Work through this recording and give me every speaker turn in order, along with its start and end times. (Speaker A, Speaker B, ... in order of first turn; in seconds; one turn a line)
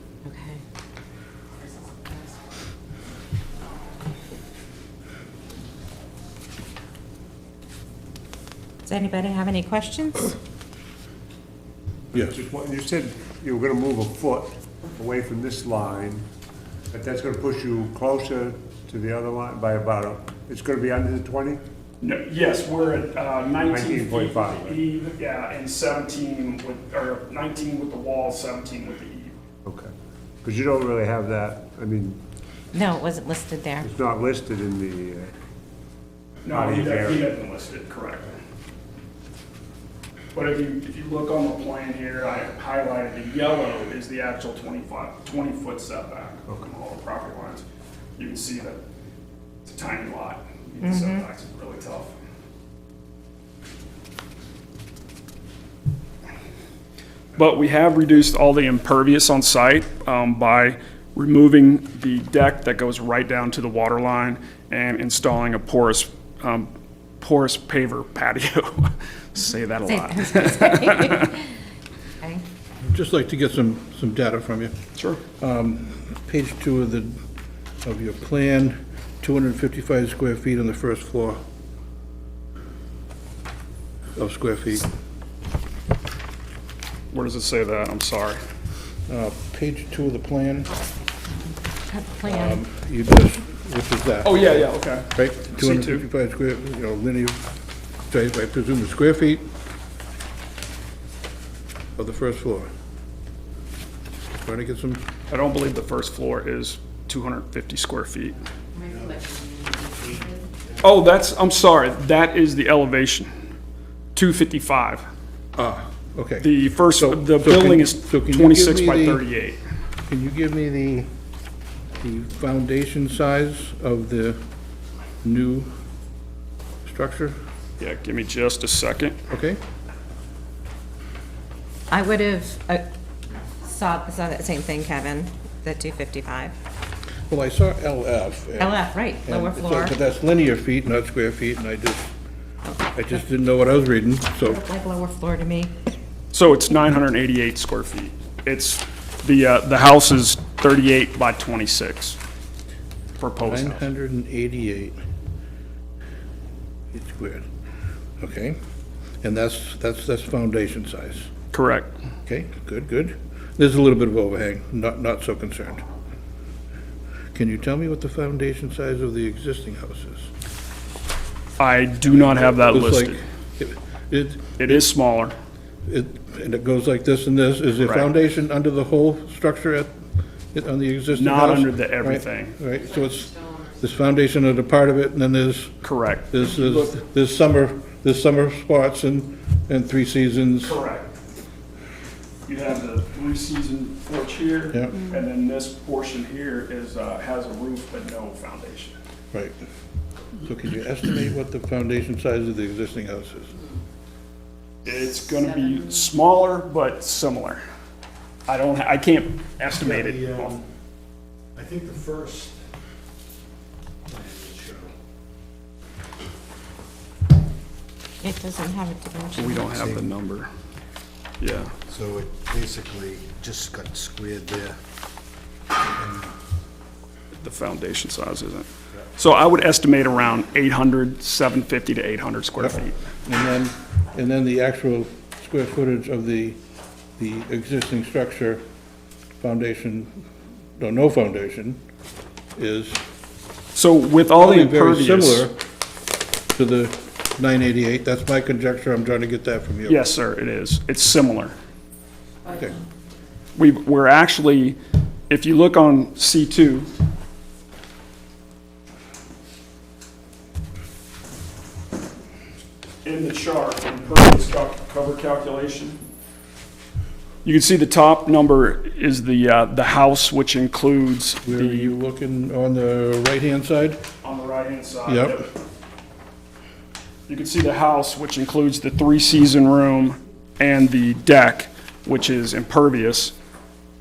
Speaker A: 0.2-0.6
Speaker A: 8.8-10.3
Speaker B: 12.2-16.2
Speaker B: 16.9-21.6
Speaker C: 22.0-29.4
Speaker B: 23.7-24.8
Speaker B: 29.6-29.9
Speaker B: 30.4-32.2
Speaker A: 32.7-33.9
Speaker B: 33.8-35.3
Speaker C: 36.4-38.3
Speaker B: 36.5-37.2
Speaker C: 40.3-47.6
Speaker C: 48.2-48.8
Speaker C: 49.6-52.1
Speaker A: 50.8-51.1
Speaker C: 57.4-71.3
Speaker A: 69.8-71.5
Speaker D: 72.8-74.7
Speaker C: 75.0-75.2
Speaker D: 75.3-77.2
Speaker D: 77.8-81.4
Speaker D: 84.2-84.9
Speaker C: 87.1-88.4
Speaker D: 89.1-90.7
Speaker A: 91.9-92.6
Speaker D: 92.2-97.4
Speaker C: 94.2-96.0
Speaker D: 98.1-99.5
Speaker D: 102.0-102.7
Speaker D: 104.4-105.0
Speaker C: 105.3-108.4
Speaker A: 108.7-110.4
Speaker C: 110.8-113.3
Speaker C: 114.1-115.0
Speaker D: 115.5-119.2
Speaker C: 116.4-119.6
Speaker D: 120.1-121.1
Speaker D: 122.0-124.4
Speaker D: 125.2-125.7
Speaker D: 126.8-127.3
Speaker C: 127.8-129.2
Speaker D: 129.3-129.6
Speaker A: 131.9-132.8
Speaker A: 133.6-136.5
Speaker D: 137.3-142.1
Speaker A: 138.6-139.9
Speaker D: 142.9-144.6
Speaker A: 144.4-145.7
Speaker C: 146.3-152.2
Speaker C: 153.2-153.8
Speaker D: 153.4-155.0
Speaker D: 156.9-157.4
Speaker D: 158.2-158.6
Speaker D: 159.2-161.3
Speaker C: 161.5-162.0
Speaker D: 162.2-165.8
Speaker D: 167.3-170.3
Speaker C: 171.6-173.2
Speaker D: 172.1-174.8
Speaker C: 174.6-175.3
Speaker D: 175.8-180.0
Speaker C: 177.8-178.1
Speaker D: 180.5-185.8
Speaker C: 181.1-182.6
Speaker C: 185.8-187.0
Speaker D: 186.3-190.8
Speaker C: 190.6-191.1
Speaker C: 192.4-198.9
Speaker D: 199.3-199.6
Speaker D: 200.4-203.5
Speaker C: 204.8-207.6
Speaker C: 208.5-210.6
Speaker E: 209.8-210.5
Speaker E: 211.5-212.6
Speaker E: 214.1-214.9
Speaker A: 218.2-219.8
Speaker C: 219.3-220.5
Speaker E: 219.8-220.1
Speaker C: 221.4-221.7
Speaker E: 221.9-224.8
Speaker E: 225.9-226.3
Speaker C: 227.4-233.0
Speaker D: 233.2-236.6
Speaker D: 237.2-238.6
Speaker D: 239.4-240.2
Speaker D: 240.8-241.8
Speaker D: 242.6-243.0
Speaker C: 243.7-245.5
Speaker D: 244.3-245.6
Speaker D: 246.5-250.0
Speaker C: 249.8-251.5
Speaker D: 252.5-252.8
Speaker C: 253.6-254.8
Speaker C: 255.3-256.9
Speaker C: 263.0-266.0
Speaker C: 267.4-271.9
Speaker D: 271.4-274.0
Speaker C: 274.2-275.5
Speaker D: 275.1-275.4
Speaker C: 277.3-283.3